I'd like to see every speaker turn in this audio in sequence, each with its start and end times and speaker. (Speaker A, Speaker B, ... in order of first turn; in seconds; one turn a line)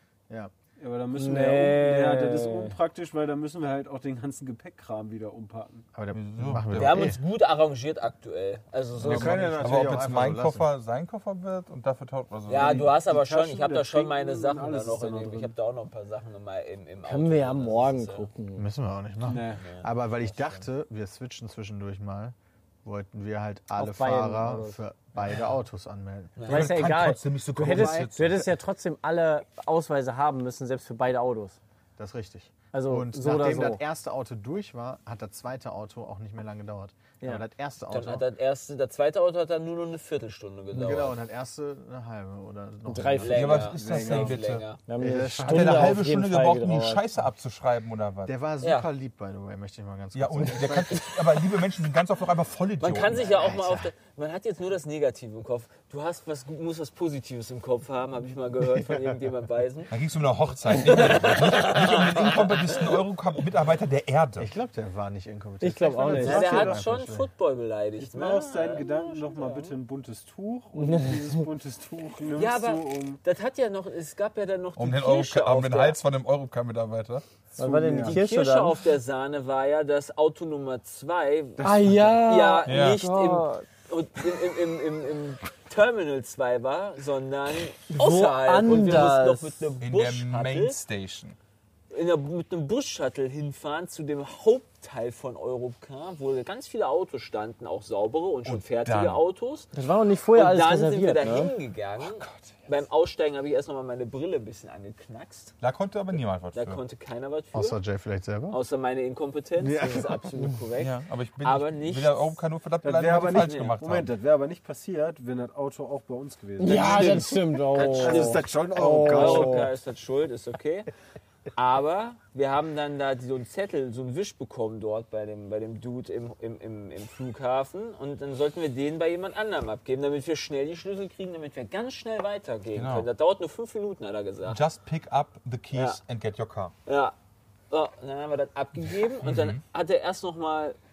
Speaker A: 0.8-5.8
Speaker B: 1.1-2.7
Speaker C: 6.0-7.2
Speaker D: 6.1-7.1
Speaker E: 6.7-9.9
Speaker D: 9.0-12.9
Speaker C: 9.0-10.7
Speaker E: 12.5-18.3
Speaker A: 12.5-15.5
Speaker B: 17.0-18.7
Speaker C: 18.6-26.4
Speaker A: 19.3-19.7
Speaker E: 19.6-20.6
Speaker B: 23.8-24.8
Speaker E: 26.4-26.8
Speaker D: 26.4-28.4
Speaker B: 26.5-31.6
Speaker C: 27.6-28.5
Speaker C: 32.0-38.2
Speaker B: 32.7-33.8
Speaker E: 37.9-41.2
Speaker C: 40.7-43.7
Speaker B: 42.9-43.5
Speaker E: 43.2-44.8
Speaker D: 43.3-44.6
Speaker A: 43.7-44.4
Speaker B: 44.9-47.0
Speaker C: 45.0-46.0
Speaker D: 45.4-48.3
Speaker C: 48.2-51.1
Speaker E: 48.6-48.9
Speaker D: 50.1-53.3
Speaker E: 52.8-59.9
Speaker C: 53.2-53.9
Speaker D: 59.9-64.5
Speaker E: 60.8-62.9
Speaker C: 64.4-67.3
Speaker B: 65.6-66.7
Speaker E: 66.2-69.8
Speaker A: 66.3-66.6
Speaker A: 68.0-73.2
Speaker B: 70.7-71.4
Speaker E: 72.3-76.0
Speaker D: 74.8-77.2
Speaker A: 77.5-78.2
Speaker B: 77.5-78.8
Speaker E: 78.0-90.8
Speaker B: 81.6-83.7
Speaker D: 82.6-83.0
Speaker B: 87.9-89.5
Speaker D: 89.8-91.4
Speaker E: 91.9-99.7
Speaker D: 98.4-99.2
Speaker B: 99.7-101.5
Speaker E: 100.3-105.5
Speaker D: 102.0-102.5
Speaker D: 105.6-106.8
Speaker E: 106.5-107.8
Speaker C: 107.5-108.6
Speaker E: 108.5-112.4
Speaker C: 109.6-110.2
Speaker D: 110.8-114.1
Speaker A: 112.8-118.2
Speaker E: 113.3-113.8
Speaker B: 116.6-119.7
Speaker E: 116.6-120.9
Speaker C: 118.0-119.6
Speaker E: 121.5-134.6
Speaker D: 132.7-133.1
Speaker D: 134.4-136.7
Speaker E: 135.7-136.0
Speaker E: 136.8-137.1
Speaker E: 137.7-140.8
Speaker D: 139.2-139.6